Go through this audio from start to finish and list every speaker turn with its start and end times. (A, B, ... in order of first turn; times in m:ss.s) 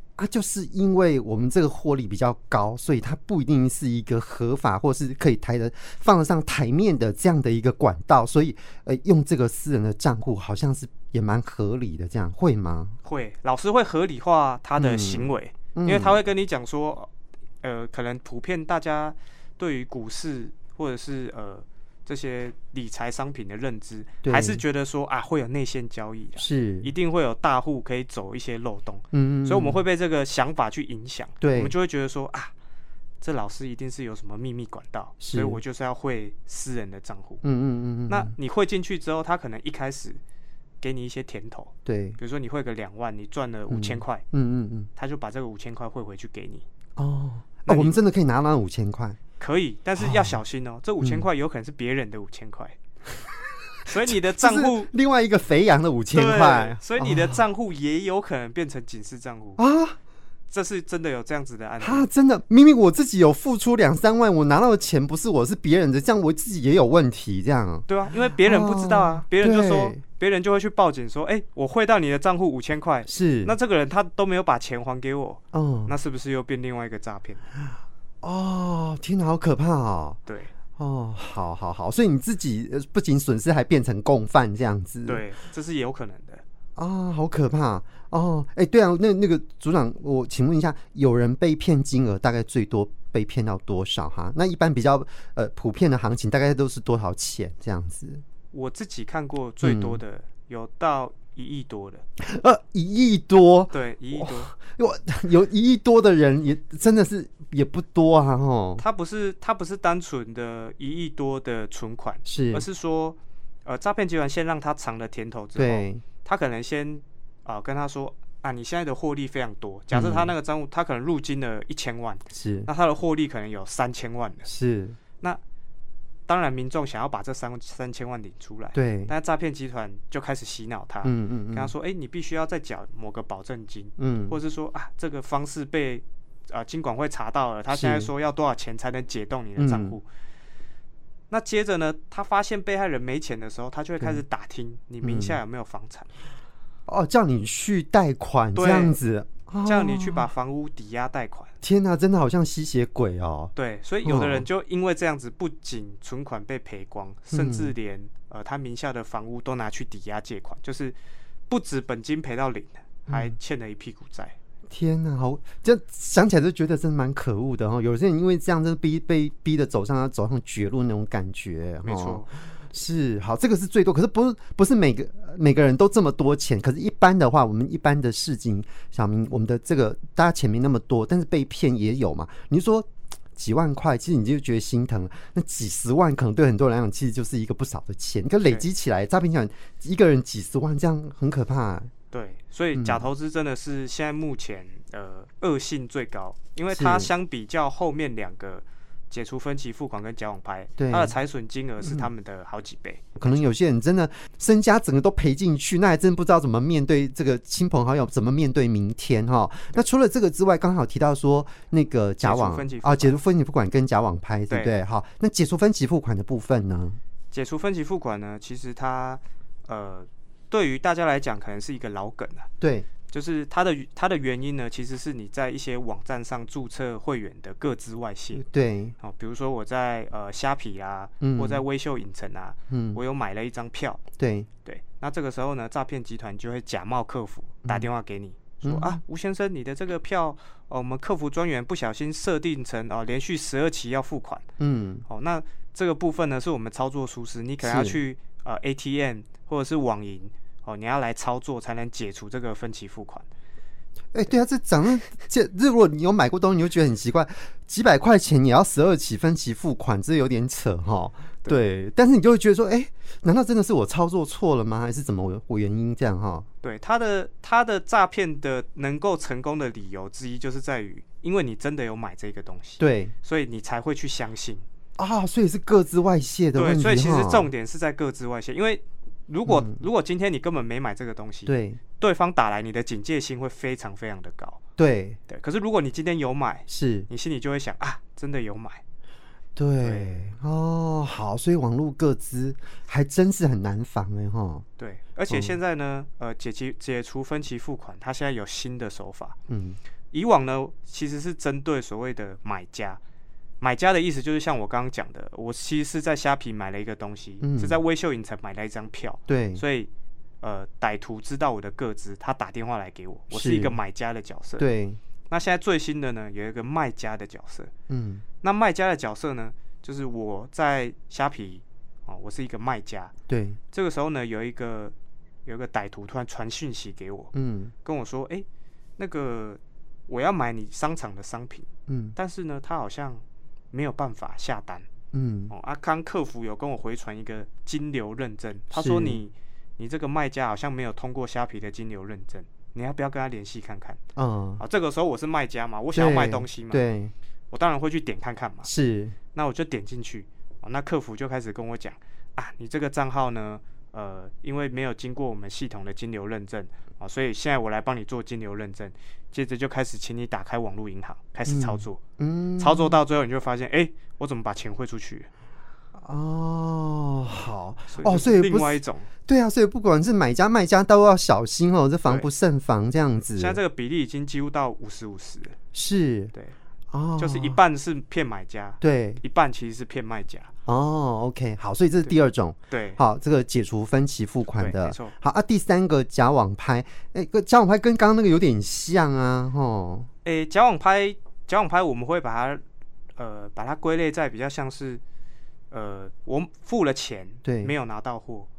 0:00.2-0:13.0 A
0:13.0-0:17.1 B
0:14.8-0:16.2 A
0:17.6-0:32.5 B
0:24.2-0:24.6 A
0:26.4-0:26.9 A
0:29.1-0:29.8 A
0:31.4-0:31.7 A
0:33.2-0:37.4 B
0:35.2-0:35.6 A
0:37.4-0:38.3 A
0:38.1-0:40.2 B
0:40.8-0:44.2 B
0:41.8-0:42.2 A
0:43.7-0:44.9 A
0:45.0-0:46.6 B
0:47.0-0:49.2 A
0:47.6-0:48.0 B
0:49.4-0:52.8 B
0:50.0-0:50.4 A
0:53.8-0:57.4 A
0:53.9-0:54.9 B
0:56.1-0:59.6 B
0:59.6-1:00.0 A
1:00.5-1:02.1 B
1:01.8-1:07.8 A
1:07.9-1:17.4 B
1:08.4-1:10.0 A
1:13.1-1:13.5 A
1:15.5-1:15.9 A
1:18.2-1:20.2 A
1:20.2-1:20.5 B
1:20.8-1:25.2 A
1:25.1-1:26.4 B
1:26.8-1:38.2 A
1:38.5-1:42.0 B
1:39.6-1:40.0 A
1:42.2-1:48.8 A
1:43.7-1:44.5 B
1:48.8-2:04.5 B
1:52.2-1:52.6 A
1:55.6-1:56.0 A
1:59.9-2:00.3 A
2:02.3-2:02.7 A
2:04.4-2:05.0 A
2:06.3-2:20.0 B
2:08.7-2:09.1 A
2:11.0-2:11.7 A
2:14.0-2:14.4 A
2:17.7-2:18.1 A
2:19.6-2:20.0 A
2:21.3-2:26.1 B
2:25.0-2:25.4 A
2:26.9-2:30.3 A
2:28.5-2:29.0 B
2:29.6-2:31.5 B
2:31.6-2:33.5 A
2:33.5-2:41.0 B
2:34.0-2:34.4 A
2:37.3-2:37.7 A
2:41.5-2:44.4 B
2:43.1-2:43.3 A
2:44.7-3:11.9 A
2:51.8-2:52.3 B
3:12.1-3:23.4 B
3:12.7-3:13.0 A
3:16.7-3:17.1 A
3:20.8-3:21.1 A
3:21.8-3:22.1 A
3:23.2-3:37.0 A
3:32.2-3:33.2 B
3:34.5-3:34.7 B
3:37.3-3:42.5 B
3:42.6-3:42.9 A
3:43.1-3:48.4 B
3:48.3-3:48.9 A
3:49.0-3:54.0 B
3:51.2-3:51.6 A
3:52.7-3:53.0 A
3:54.2-3:54.5 A
3:54.6-4:04.4 B
3:58.6-3:59.0 A
4:04.6-4:05.0 A
4:05.1-4:13.3 B
4:07.6-4:08.0 A
4:14.1-4:26.5 A
4:26.6-4:34.6 B
4:32.8-4:33.1 A
4:35.0-4:37.5 A
4:36.5-4:44.6 B
4:39.4-4:39.8 A
4:41.4-4:41.8 A
4:44.8-4:45.2 A
4:45.3-4:48.8 B
4:46.7-4:47.1 A
4:49.6-4:54.6 A
4:49.8-4:50.2 B
4:54.8-4:59.4 B
4:55.3-4:55.6 A
4:59.5-4:59.8 A
5:00.1-5:03.0 B
5:03.6-5:09.9 B
5:07.4-5:07.8 A
5:09.3-5:09.6 A
5:10.4-5:14.6 B
5:13.3-5:13.8 A
5:14.6-5:15.0 A
5:15.3-5:17.7 B
5:17.9-5:18.2 A
5:18.4-5:23.1 B
5:23.3-5:23.6 A
5:23.7-5:24.9 B
5:25.4-5:27.3 B
5:27.3-5:27.7 A
5:27.8-5:28.4 B
5:29.0-5:34.9 B
5:31.9-5:32.2 A
5:35.1-5:35.5 A
5:35.5-5:44.0 B
5:38.7-5:39.2 A
5:44.2-5:44.6 A
5:44.6-5:46.8 B
5:45.9-5:47.1 A
5:47.5-5:48.7 B
5:48.6-5:49.2 A
5:49.3-6:02.0 B
6:01.5-6:03.0 A
6:02.6-6:05.3 B
6:06.0-6:13.6 A
6:07.9-6:09.1 B
6:13.4-6:15.6 B
6:15.7-6:16.3 A
6:16.9-6:17.6 A
6:17.2-6:20.5 B
6:18.8-6:19.2 A
6:20.6-6:30.1 A
6:22.7-6:23.0 B
6:24.6-6:25.1 B
6:30.2-6:32.6 B
6:33.2-6:35.0 B
6:35.7-6:38.5 B
6:37.4-6:37.7 A